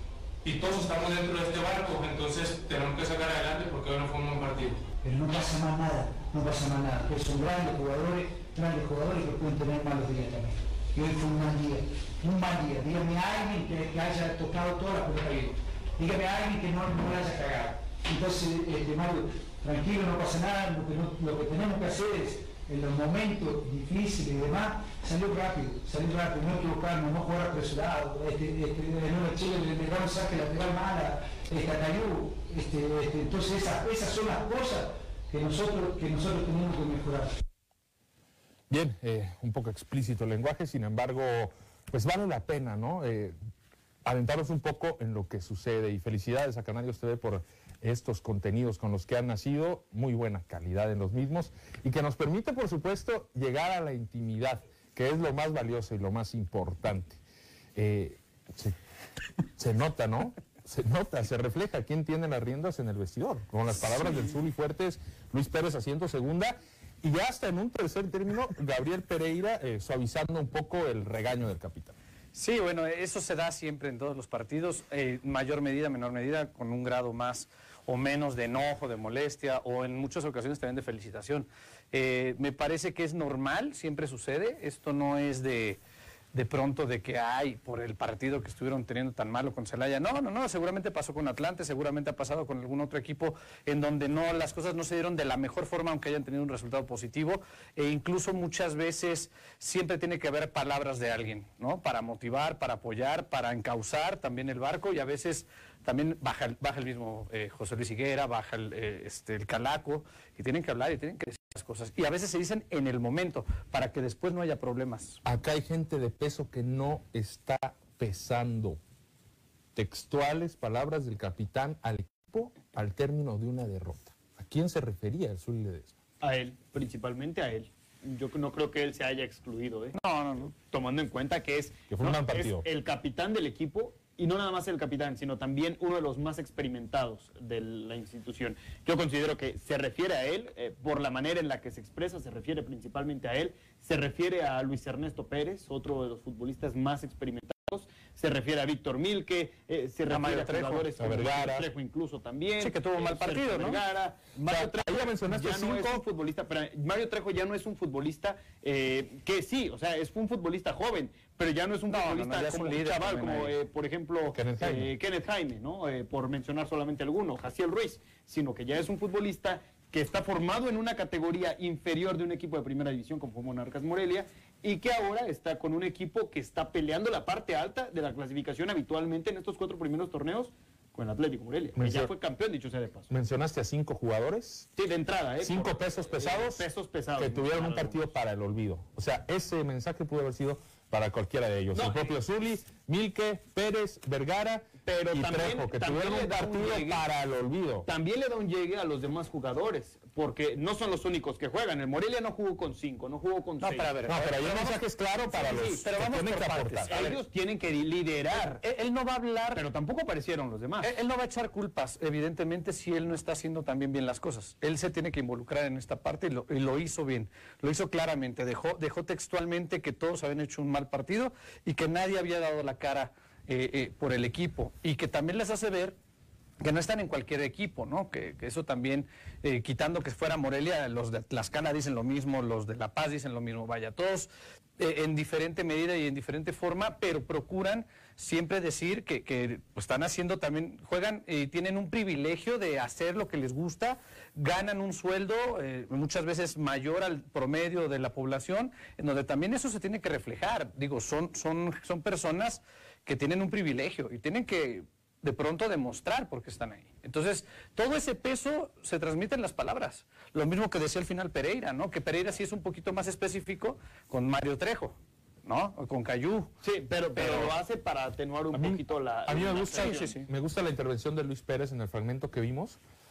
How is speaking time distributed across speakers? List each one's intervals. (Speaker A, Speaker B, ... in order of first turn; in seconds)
Speaker A: 0.4-4.8
Speaker B: 5.0-37.3
Speaker C: 38.7-43.3, 44.0-57.2, 57.7-58.8, 59.6-72.0, 115.2-118.8, 119.7-126.0, 131.9-132.7, 150.1-151.7, 154.5-156.0, 164.3-164.9, 181.7-182.1, 183.1-184.7, 185.4-197.9, 204.0-207.2, 268.5-272.8
Speaker D: 72.3-85.8, 86.3-115.2, 129.9-130.5, 150.1-150.8, 152.6-153.8, 161.9-163.6, 203.6-204.8, 205.3-207.2, 208.3-209.6, 210.8-226.0, 226.6-266.5, 267.1-267.6, 269.7-270.3
Speaker E: 126.2-183.1, 184.8-188.1, 191.7-192.2, 194.9-197.0, 197.8-203.9, 205.5-205.8, 206.9-208.6, 209.5-210.9, 266.6-270.2